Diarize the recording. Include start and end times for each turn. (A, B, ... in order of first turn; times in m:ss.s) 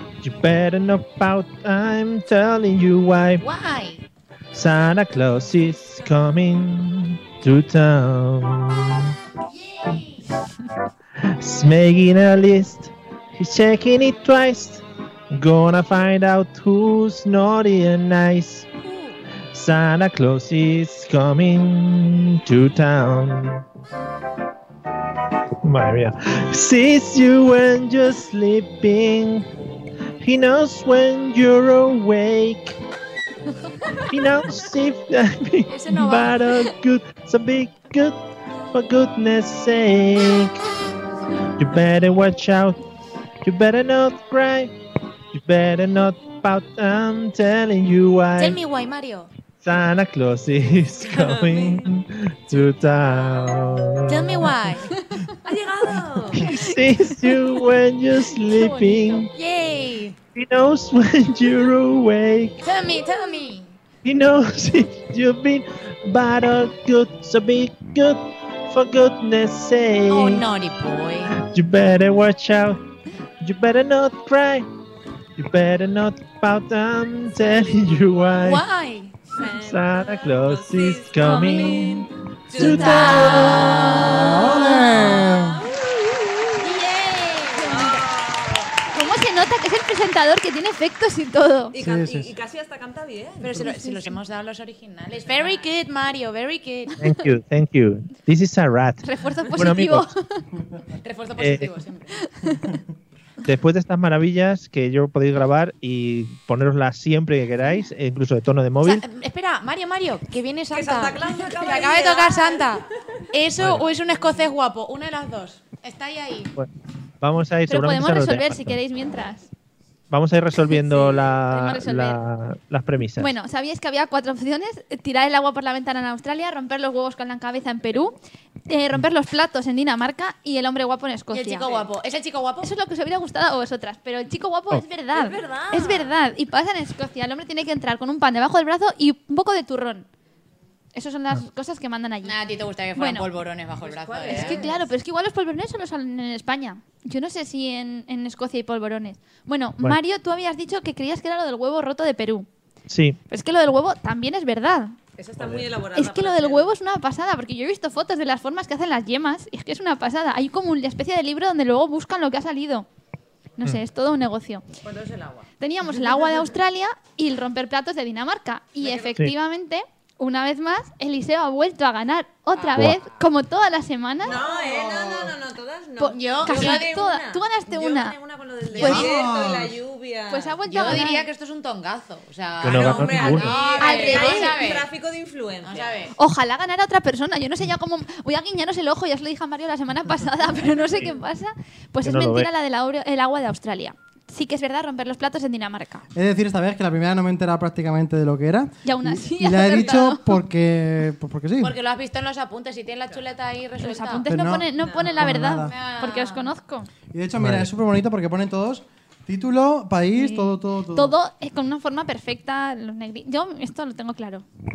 0:00.2-0:03.4 A
0:03.4-0:04.1 B
0:04.5-0:09.1 A
0:09.5-0:10.3 B
0:11.2-0:18.7 A
0:18.8-0:19.2 B
0:19.5-0:23.6 A
0:25.6-0:29.5 A
0:30.2-0:32.8 A
0:34.0-0:38.2 A
0:35.7-0:36.6 B
0:38.7-0:40.7 A
0:41.6-0:42.8 A
0:43.4-0:44.7 A
0:45.3-0:48.6 A
0:48.4-0:49.3 B
0:49.6-0:54.8 A
0:51.0-0:51.9 C
0:52.9-0:53.5 C
0:54.1-0:54.9 B
0:54.9-0:55.4 D
0:55.4-0:56.6 C
0:56.3-0:59.3 A
0:56.4-0:57.6 D
0:58.3-0:59.3 D
0:59.3-1:00.2 B
1:00.4-1:02.6 A
1:02.6-1:03.8 B
1:04.0-1:10.5 A
1:10.1-1:11.3 B
1:11.3-1:12.8 A
1:13.4-1:14.7 A
1:15.4-1:18.6 A
1:17.4-1:18.3 C
1:18.4-1:19.3 B
1:19.3-1:26.7 C
1:19.5-1:23.8 A
1:21.3-1:21.8 D
1:22.6-1:23.9 B
1:23.2-1:24.9 D
1:23.9-1:25.6 E
1:26.6-1:28.7 B
1:27.6-1:28.7 C
1:28.9-1:31.7 D
1:31.7-1:33.7 C
1:31.8-1:32.3 E
1:33.4-1:37.0 B
1:33.6-1:34.2 D
1:35.2-1:35.5 C
1:37.0-1:40.1 A
1:39.0-1:40.5 D
1:41.0-1:42.2 B
1:41.4-1:41.7 A
1:42.2-1:42.8 D
1:43.4-1:49.0 A
1:48.8-1:56.5 B
1:50.7-1:52.9 C
1:53.6-1:53.9 A
1:56.6-1:58.8 A
1:57.7-1:59.5 D
2:00.1-2:03.3 A
2:00.9-2:01.4 C
2:01.5-2:02.2 D
2:03.2-2:08.2 D
2:08.7-2:11.7 D
2:11.3-2:12.7 B
2:11.6-2:11.9 C
2:12.6-2:20.1 D
2:15.1-2:16.2 C
2:20.9-2:22.4 D
2:22.2-2:24.7 B
2:23.0-2:23.3 D
2:23.8-2:24.9 C
2:24.3-2:32.5 D
2:32.9-2:33.2 A
2:33.3-2:35.0 D
2:35.2-2:36.7 C
2:35.4-2:35.7 A
2:36.0-2:42.9 D
2:43.6-2:44.6 D
2:44.8-2:46.5 C
2:45.6-2:54.4 D
2:48.8-2:49.1 C
2:52.5-2:53.0 C
2:54.2-3:01.0 C
2:54.3-2:55.4 E
2:56.0-2:58.2 D
2:56.1-2:57.0 B
2:58.8-2:59.0 D
2:58.8-2:59.8 E
3:00.3-3:01.3 D
3:00.7-3:04.9 B
3:02.6-3:03.5 A
3:02.6-3:06.1 C
3:03.8-3:04.6 D
3:05.6-3:06.2 B
3:06.2-3:16.0 D
3:12.0-3:12.5 A
3:16.2-3:21.8 E
3:18.8-3:20.4 D
3:19.7-3:20.0 C
3:21.6-3:24.3 B
3:23.8-3:26.9 D
3:24.3-3:25.8 E
3:24.8-3:26.5 B
3:27.1-3:31.2 E
3:27.4-3:27.7 A
3:30.2-3:34.4 D